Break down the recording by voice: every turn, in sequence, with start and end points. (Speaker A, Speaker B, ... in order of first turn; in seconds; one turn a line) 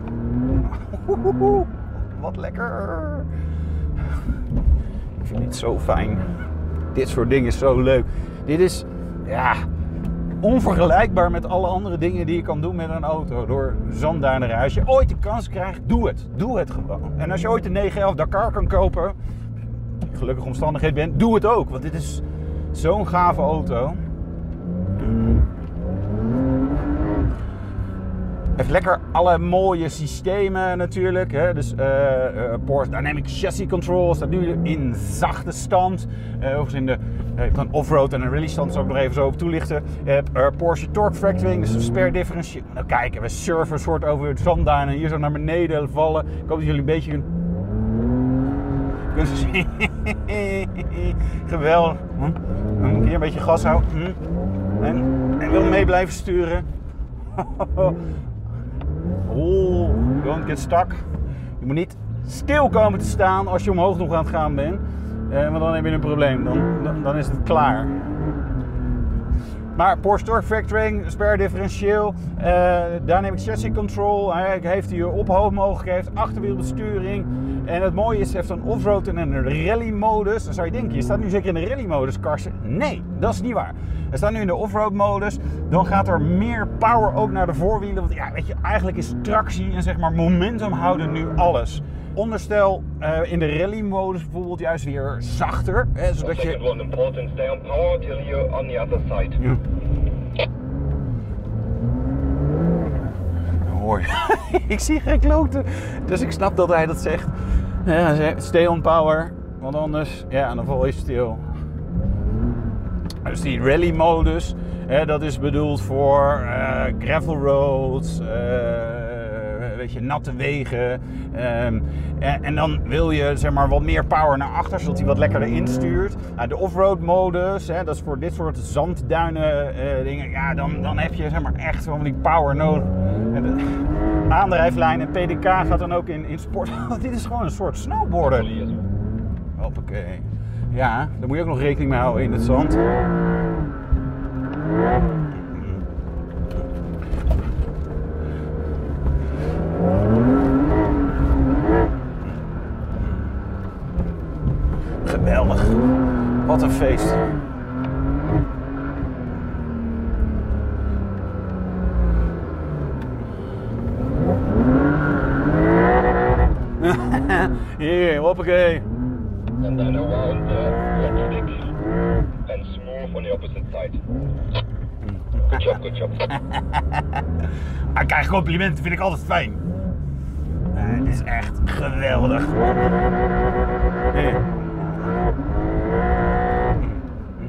Speaker A: 0.6-3.2
Speaker A: 5.2-6.3
Speaker A: 6.9-9.7
Speaker A: 10.4-19.2
Speaker A: 20.1-24.0
Speaker A: 25.0-25.5
Speaker A: 28.6-47.2
Speaker A: 49.1-54.2
Speaker A: 54.8-56.6
Speaker A: 57.3-58.0
Speaker A: 59.3-61.0
Speaker A: 61.6-68.0
Speaker A: 69.7-96.6
Speaker B: 96.2-99.4
Speaker A: 103.7-111.4
Speaker A: 113.2-138.5
Speaker B: 138.2-138.8
Speaker A: 139.6-142.8
Speaker A: 145.5-145.8
Speaker A: 155.0-155.9
Speaker A: 156.4-157.2
Speaker A: 166.8-168.8
Speaker B: 169.6-171.7
Speaker B: 172.5-174.0
Speaker A: 175.1-175.8
Speaker B: 175.5-176.3
Speaker A: 177.9-179.6
Speaker A: 180.7-182.8
Speaker A: 184.1-185.0